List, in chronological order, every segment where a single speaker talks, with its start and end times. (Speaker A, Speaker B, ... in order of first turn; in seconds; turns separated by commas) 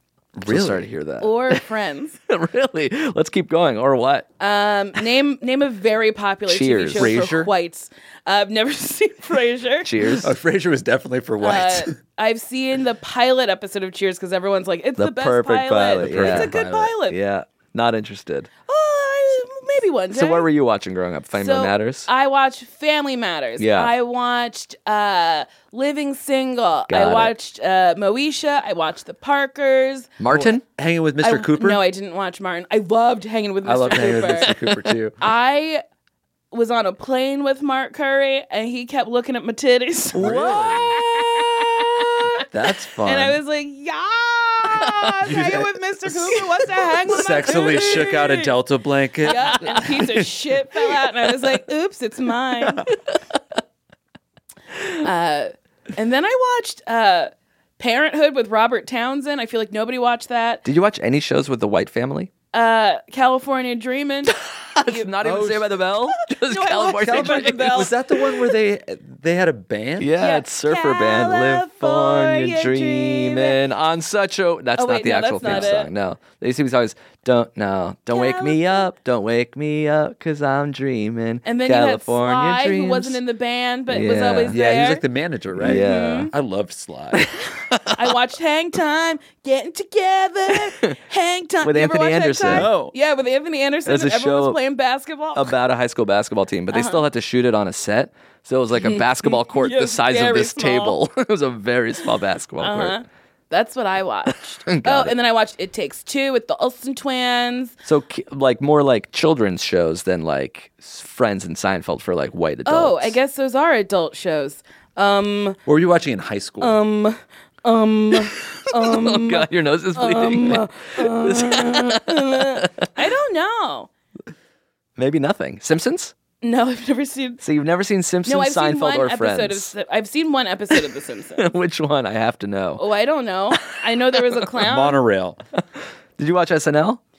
Speaker A: 0.3-0.9, Speaker B: 0.4-1.6, Speaker C: 1.2-2.2, Speaker B: 2.3-4.3, Speaker C: 4.4-10.2, Speaker B: 6.5-7.2, Speaker A: 6.9-7.5, Speaker B: 9.8-10.3, Speaker A: 10.2-11.9, Speaker C: 11.4-17.1, Speaker B: 15.0-18.5, Speaker A: 16.0-16.9, Speaker C: 18.7-20.5, Speaker B: 20.1-22.1, Speaker C: 21.4-30.1, Speaker B: 23.6-23.9, Speaker B: 26.9-27.3, Speaker B: 30.2-30.6, Speaker A: 30.3-31.8, Speaker C: 31.2-34.5, Speaker A: 33.6-35.2, Speaker C: 35.2-35.8, Speaker C: 36.5-42.4, Speaker B: 40.1-41.0, Speaker A: 40.1-41.0, Speaker A: 42.5-43.4, Speaker C: 43.0-48.5, Speaker A: 45.2-50.2, Speaker B: 47.2-48.0, Speaker C: 49.3-52.9, Speaker C: 55.0-60.6, Speaker B: 60.6-62.3, Speaker C: 62.5-65.1, Speaker B: 64.3-67.9, Speaker A: 65.2-65.8, Speaker C: 66.3-67.9, Speaker A: 67.0-70.1, Speaker B: 70.0-83.2, Speaker C: 70.2-73.6, Speaker C: 74.8-75.9, Speaker A: 75.4-75.7, Speaker C: 78.1-78.9, Speaker C: 81.4-85.0, Speaker B: 83.9-84.6, Speaker A: 84.5-87.3, Speaker B: 85.6-86.3, Speaker C: 85.6-86.3, Speaker B: 87.1-88.1, Speaker C: 87.9-95.5, Speaker B: 91.6-92.7, Speaker A: 92.5-92.9, Speaker B: 93.8-94.6, Speaker B: 95.3-103.0, Speaker C: 96.7-97.0, Speaker C: 98.8-101.0, Speaker C: 102.6-107.7, Speaker B: 104.7-105.1, Speaker B: 107.8-113.2, Speaker C: 112.7-115.6, Speaker A: 115.7-116.8, Speaker C: 116.6-123.9, Speaker B: 118.5-122.9, Speaker B: 125.0-126.1, Speaker C: 126.4-127.4, Speaker B: 127.4-129.7, Speaker C: 128.2-131.5, Speaker B: 131.4-132.8, Speaker C: 132.8-135.0, Speaker A: 134.6-135.4, Speaker B: 136.2-137.0